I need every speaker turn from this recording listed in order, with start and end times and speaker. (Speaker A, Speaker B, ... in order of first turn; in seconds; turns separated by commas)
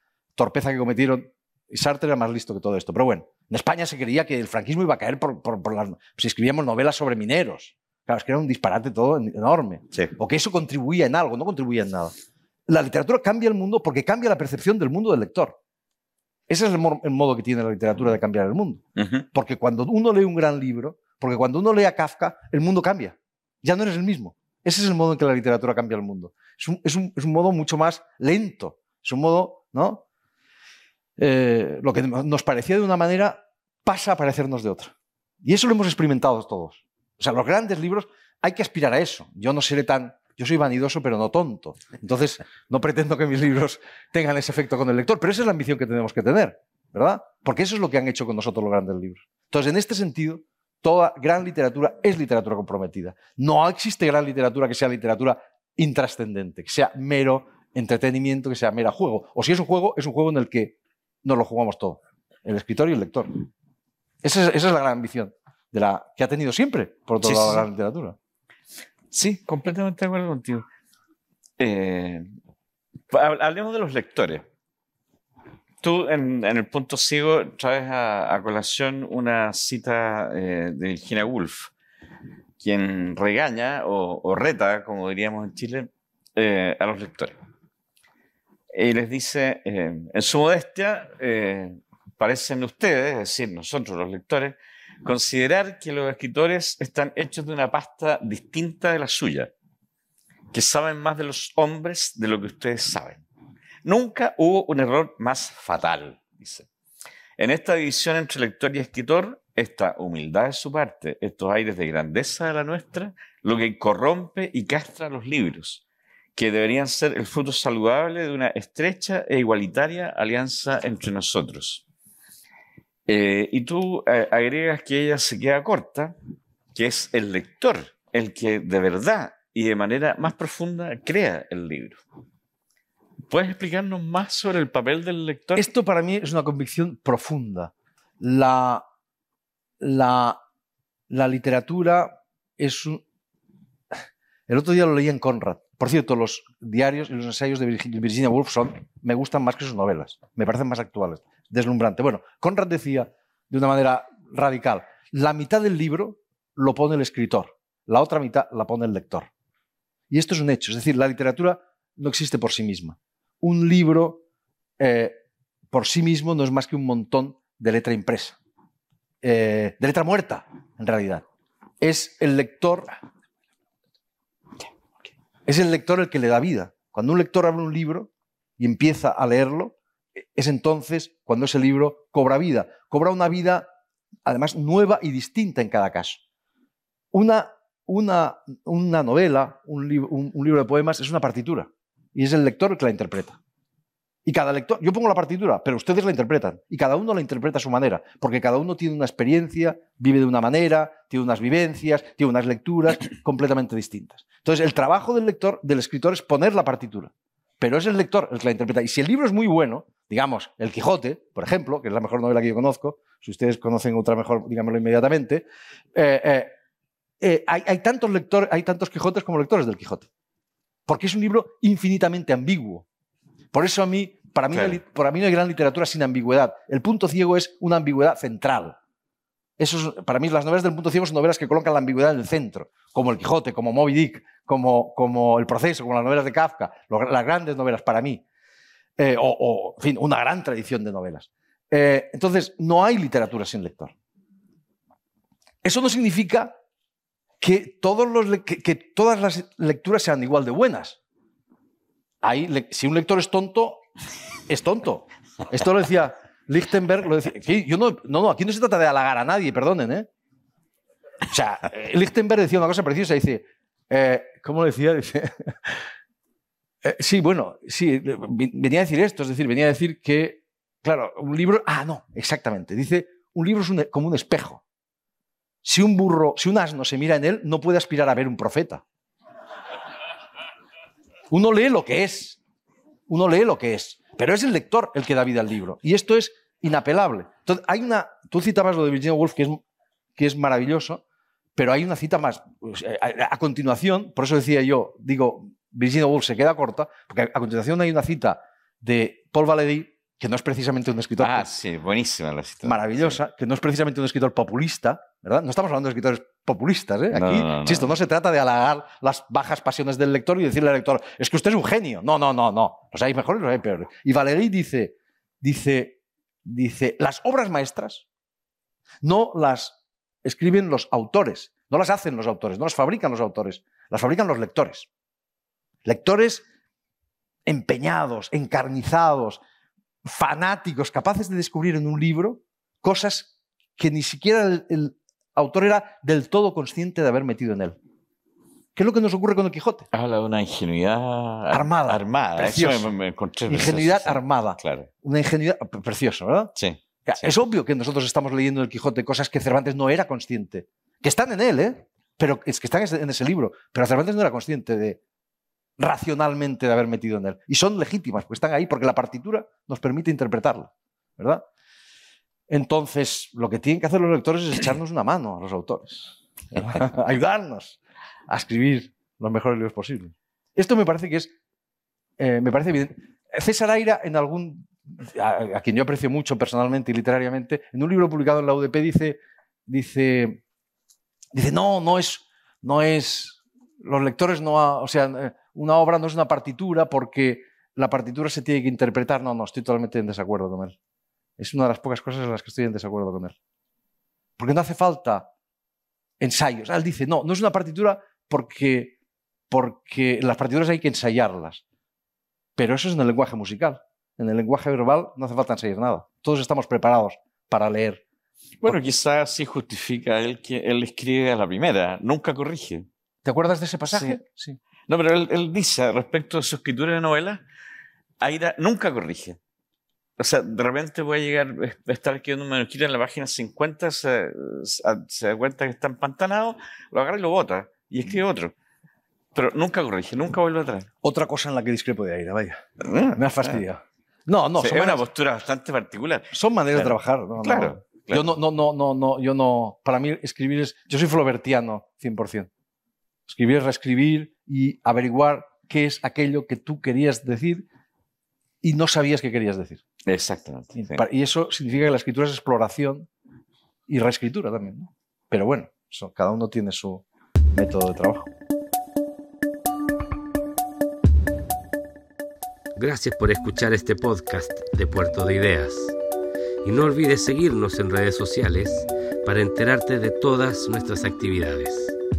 Speaker A: 0.3-12.1, Speaker A: 12.7-15.6, Speaker A: 16.5-18.8, Speaker B: 18.9-19.2, Speaker A: 19.3-30.0, Speaker A: 31.2-63.4, Speaker A: 64.2-68.2, Speaker B: 67.2-67.6, Speaker B: 69.1-70.7, Speaker B: 71.6-72.3, Speaker B: 73.1-74.5, Speaker B: 75.8-81.7, Speaker B: 82.6-87.3, Speaker B: 88.7-99.5, Speaker B: 100.5-103.2, Speaker B: 103.8-106.7, Speaker B: 107.4-115.8, Speaker B: 116.3-121.8, Speaker B: 123.1-126.1, Speaker B: 126.7-132.0, Speaker B: 133.3-135.7, Speaker A: 135.6-138.8, Speaker A: 139.8-140.4, Speaker A: 141.1-143.0, Speaker A: 144.5-159.3, Speaker A: 160.1-164.2, Speaker A: 164.8-165.2, Speaker A: 165.7-168.4, Speaker A: 169.2-171.2, Speaker A: 171.8-172.9, Speaker A: 175.4-183.7, Speaker A: 184.2-186.2, Speaker A: 187.1-193.4, Speaker A: 194.2-216.5, Speaker A: 217.2-220.1, Speaker A: 220.8-222.8, Speaker A: 223.5-228.8, Speaker B: 224.5-224.8, Speaker A: 229.6-238.2, Speaker A: 239.0-243.9, Speaker A: 245.6-246.5, Speaker A: 247.4-251.0, Speaker A: 252.2-253.8, Speaker A: 254.5-260.1, Speaker A: 261.3-265.8, Speaker A: 266.8-274.6, Speaker A: 275.6-278.8, Speaker A: 281.3-282.4, Speaker A: 283.1-289.6, Speaker A: 290.1-291.0, Speaker A: 291.6-301.5, Speaker B: 301.2-303.2, Speaker A: 302.6-318.0, Speaker B: 307.1-307.9, Speaker A: 319.0-324.9, Speaker A: 325.8-326.4, Speaker A: 327.4-329.4, Speaker A: 330.0-337.8, Speaker A: 338.7-339.9, Speaker B: 339.9-344.9, Speaker A: 341.5-342.9, Speaker A: 343.4-346.5, Speaker B: 346.6-347.3, Speaker A: 347.1-355.0, Speaker A: 355.8-361.4, Speaker A: 362.5-371.3, Speaker A: 372.2-380.4, Speaker A: 381.3-390.8, Speaker A: 391.4-393.4, Speaker A: 394.4-395.3, Speaker A: 396.2-398.9, Speaker A: 399.5-401.6, Speaker A: 402.6-408.0, Speaker B: 408.6-412.9, Speaker A: 413.2-414.6, Speaker B: 413.9-414.2, Speaker B: 414.9-417.4, Speaker B: 418.2-419.4, Speaker B: 420.2-428.5, Speaker B: 429.3-430.9, Speaker A: 431.0-432.6, Speaker B: 432.8-433.6, Speaker A: 433.1-435.0, Speaker B: 434.6-438.3, Speaker A: 436.3-442.5, Speaker A: 443.3-447.6, Speaker A: 448.6-449.8, Speaker B: 450.1-451.0, Speaker A: 450.7-453.1, Speaker A: 453.9-458.3, Speaker C: 462.8-465.9, Speaker C: 466.6-471.9